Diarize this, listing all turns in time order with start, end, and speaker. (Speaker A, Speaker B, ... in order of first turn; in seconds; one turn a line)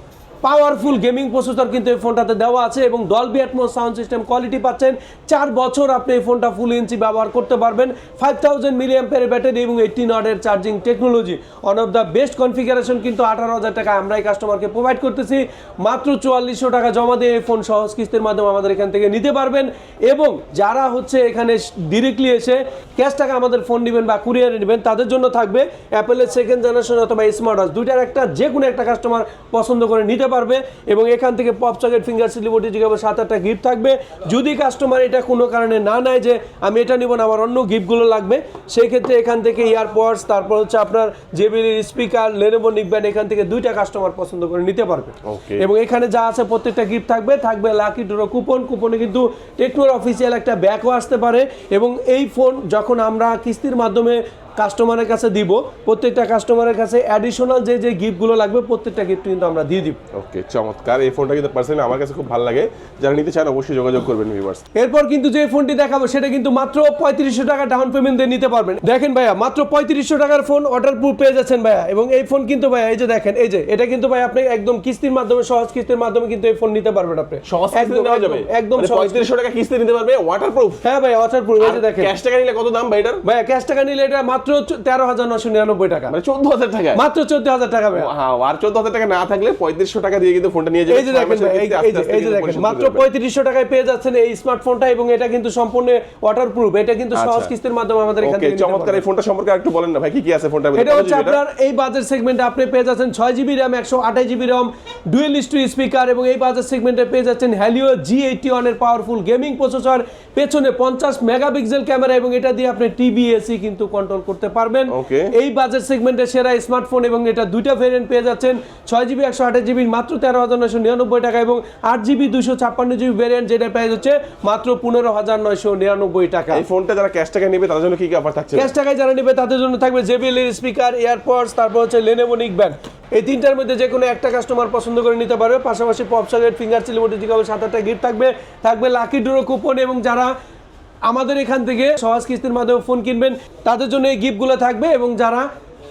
Speaker A: 0.4-60.0
Speaker B: 45.2-45.7
Speaker B: 60.1-64.6
Speaker A: 64.7-79.3
Speaker B: 77.4-80.8
Speaker A: 80.8-82.1
Speaker B: 81.6-83.2
Speaker A: 83.2-86.2
Speaker B: 86.1-87.0
Speaker A: 86.9-88.1
Speaker B: 87.9-93.0
Speaker A: 90.9-99.0
Speaker B: 97.1-97.5
Speaker B: 98.2-101.4
Speaker A: 100.7-126.6
Speaker B: 114.9-115.3
Speaker B: 126.5-128.7
Speaker A: 128.5-140.3
Speaker A: 141.1-145.5